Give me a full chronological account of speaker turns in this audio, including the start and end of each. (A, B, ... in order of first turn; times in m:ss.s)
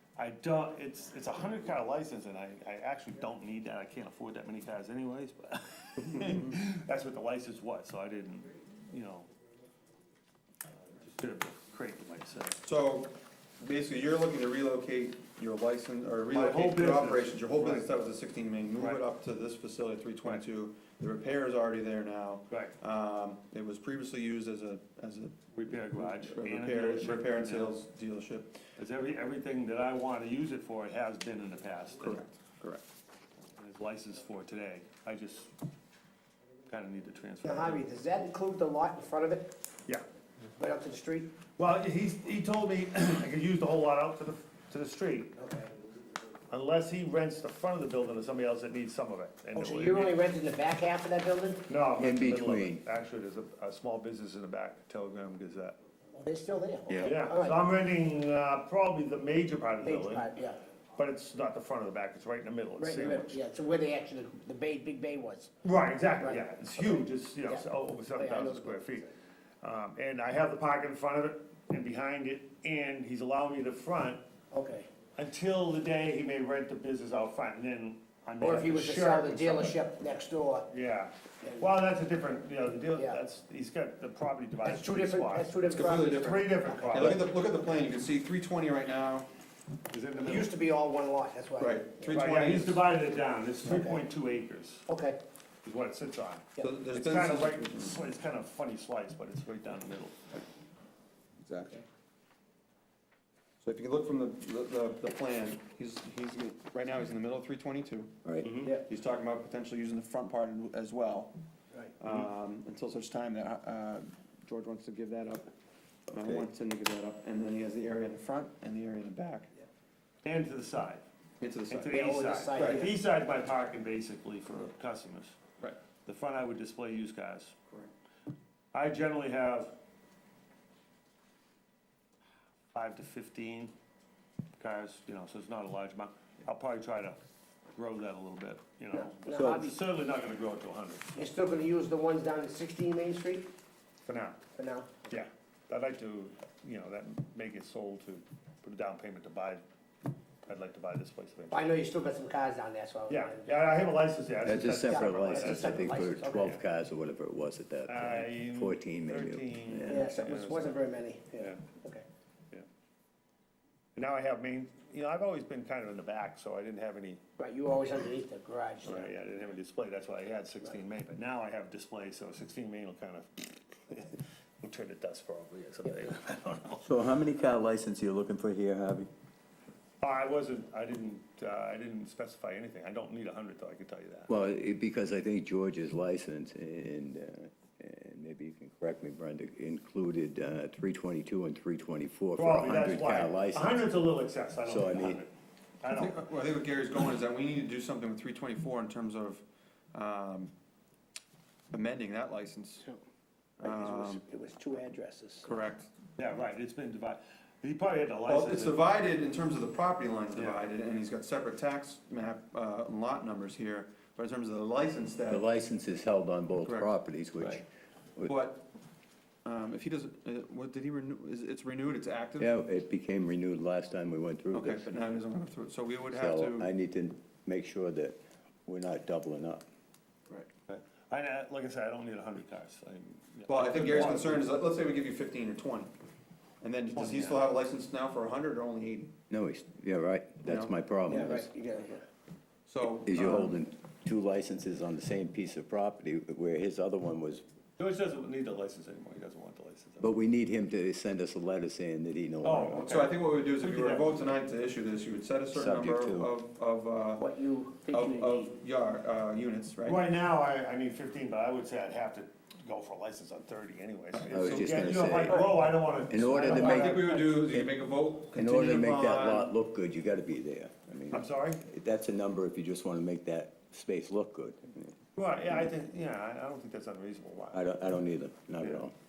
0:00.2-0:09.3 A
0:11.0-0:12.6 A
0:12.6-0:28.6 B
0:16.3-0:17.9 A
0:22.5-0:22.8 A
0:25.5-0:27.8 A
0:28.8-0:32.3 A
0:32.0-0:32.8 B
0:33.6-0:35.5 A
0:36.7-0:37.8 A
0:37.4-0:39.6 C
0:40.6-0:41.3 C
0:41.6-0:45.5 A
0:46.5-0:50.2 A
0:49.6-0:51.7 C
0:51.7-0:55.8 A
0:52.0-0:52.8 D
0:56.2-0:57.6 C
0:57.0-1:00.3 A
0:59.8-1:00.6 C
1:01.0-1:03.4 A
1:02.8-1:05.5 C
1:05.6-1:09.1 A
1:06.2-1:07.6 C
1:08.2-1:09.0 C
1:09.6-1:14.2 A
1:14.5-1:14.9 C
1:15.2-1:19.8 A
1:18.4-1:20.7 C
1:20.7-1:25.6 A
1:23.0-1:23.2 C
1:24.6-1:27.2 C
1:25.7-1:29.3 B
1:26.1-1:27.2 A
1:29.9-1:30.5 A
1:30.2-1:32.2 C
1:31.6-1:32.8 B
1:32.1-1:34.9 A
1:33.7-1:34.0 C
1:34.9-1:35.2 C
1:35.6-1:40.4 A
1:36.6-1:38.0 B
1:41.4-1:41.8 B
1:43.6-1:51.3 B
1:48.2-1:48.5 D
1:48.4-1:48.7 A
1:52.0-1:55.5 B
1:56.1-1:59.5 B
1:56.2-1:56.4 D
2:00.2-2:01.0 A
2:01.4-2:02.0 B
2:01.7-2:05.4 A
2:01.9-2:03.0 C
2:02.6-2:02.9 B
2:06.0-2:07.6 A
2:08.7-2:09.8 A
2:12.7-2:13.8 A
2:14.6-2:17.2 A
2:17.8-2:21.2 A
2:19.0-2:19.8 C
2:19.4-2:19.6 D
2:21.2-2:23.5 C
2:24.1-2:24.4 A
2:24.6-2:25.1 C
2:25.1-2:29.6 A
2:30.5-2:31.6 A
2:31.5-2:33.5 C
2:33.1-2:36.1 A
2:34.4-2:40.2 D
2:34.9-2:36.5 C
2:37.9-2:40.8 A
2:39.9-2:42.0 C
2:41.4-2:41.7 A
2:44.0-2:47.2 A
2:47.4-2:49.1 C
2:48.8-2:56.9 A
2:56.8-2:59.1 D
3:00.0-3:04.3 A
3:04.3-3:13.9 D
3:12.4-3:16.3 A
3:14.6-3:15.2 D
3:15.9-3:20.5 B
3:21.7-3:22.9 B
3:23.6-3:24.2 B
3:23.6-3:25.5 C
3:25.4-3:25.9 B
3:26.2-3:28.8 A
3:28.3-3:35.5 B
3:30.4-3:30.6 A
3:35.3-3:37.7 D
3:36.6-3:36.9 B
3:38.2-3:38.7 B
3:39.4-3:42.5 B
3:42.4-3:44.9 D
3:44.5-3:46.7 B
3:46.1-3:49.6 D
3:50.7-3:54.5 A
3:53.5-3:55.9 B
3:56.6-3:59.2 B
3:56.9-3:57.5 A
3:59.3-4:01.5 D
4:00.4-4:00.7 B
4:01.1-4:02.1 C
4:02.7-4:03.6 B
4:03.0-4:07.4 D
4:07.8-4:10.1 A
4:10.0-4:13.1 D
4:12.4-4:13.1 A
4:12.8-4:17.2 B
4:13.6-4:14.3 A
4:15.5-4:16.3 D
4:17.2-4:18.5 C
4:17.9-4:20.0 B
4:19.8-4:27.2 A
4:24.1-4:24.9 B
4:24.3-4:27.8 D
4:26.4-4:29.5 B
4:28.3-4:35.0 D
4:31.1-4:31.6 A
4:35.2-4:37.6 A
4:37.5-4:38.9 D